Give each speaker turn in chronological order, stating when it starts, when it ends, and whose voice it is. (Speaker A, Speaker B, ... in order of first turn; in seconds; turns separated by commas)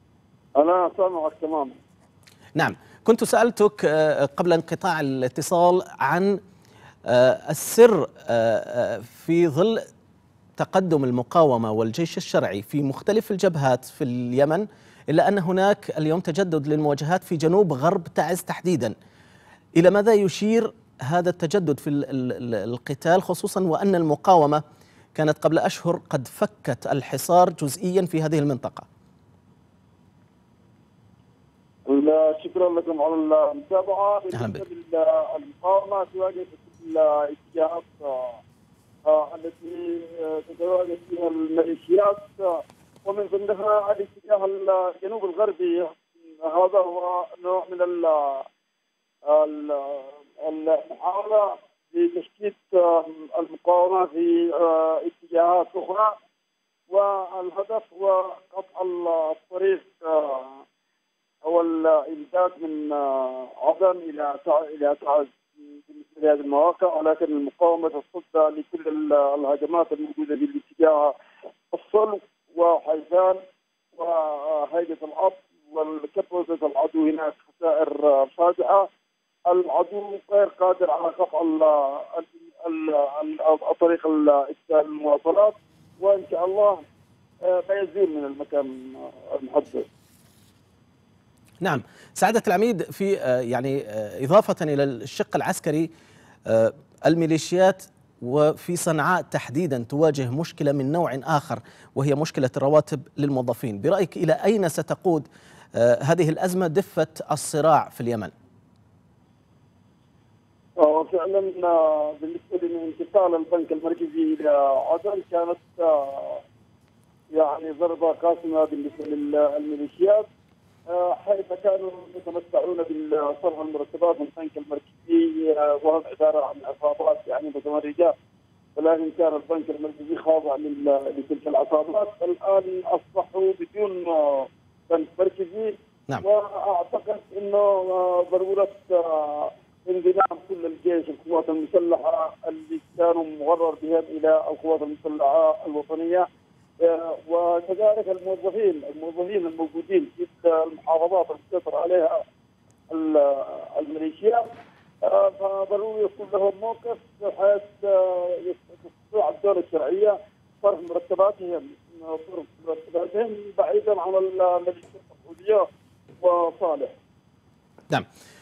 Speaker A: 0.6-1.7, Speaker B: 2.6-6.4, Speaker B: 7.1-9.8, Speaker B: 10.6-18.9, Speaker B: 19.8-24.6, Speaker B: 25.1-28.9, Speaker A: 31.9-38.4, Speaker B: 34.3-34.6, Speaker A: 39.0-48.5, Speaker A: 49.2-56.2, Speaker A: 56.9-60.6, Speaker A: 61.4-71.2, Speaker A: 71.7-73.4, Speaker A: 73.9-78.9, Speaker A: 79.5-86.8, Speaker A: 87.4-89.9, Speaker B: 91.6-95.9, Speaker B: 96.5-108.3, Speaker A: 110.8-116.4, Speaker A: 117.3-120.3, Speaker A: 120.9-128.2, Speaker A: 128.8-146.3, Speaker A: 146.8-152.2, Speaker A: 152.9-154.5, Speaker A: 155.0-165.7, Speaker A: 166.2-166.9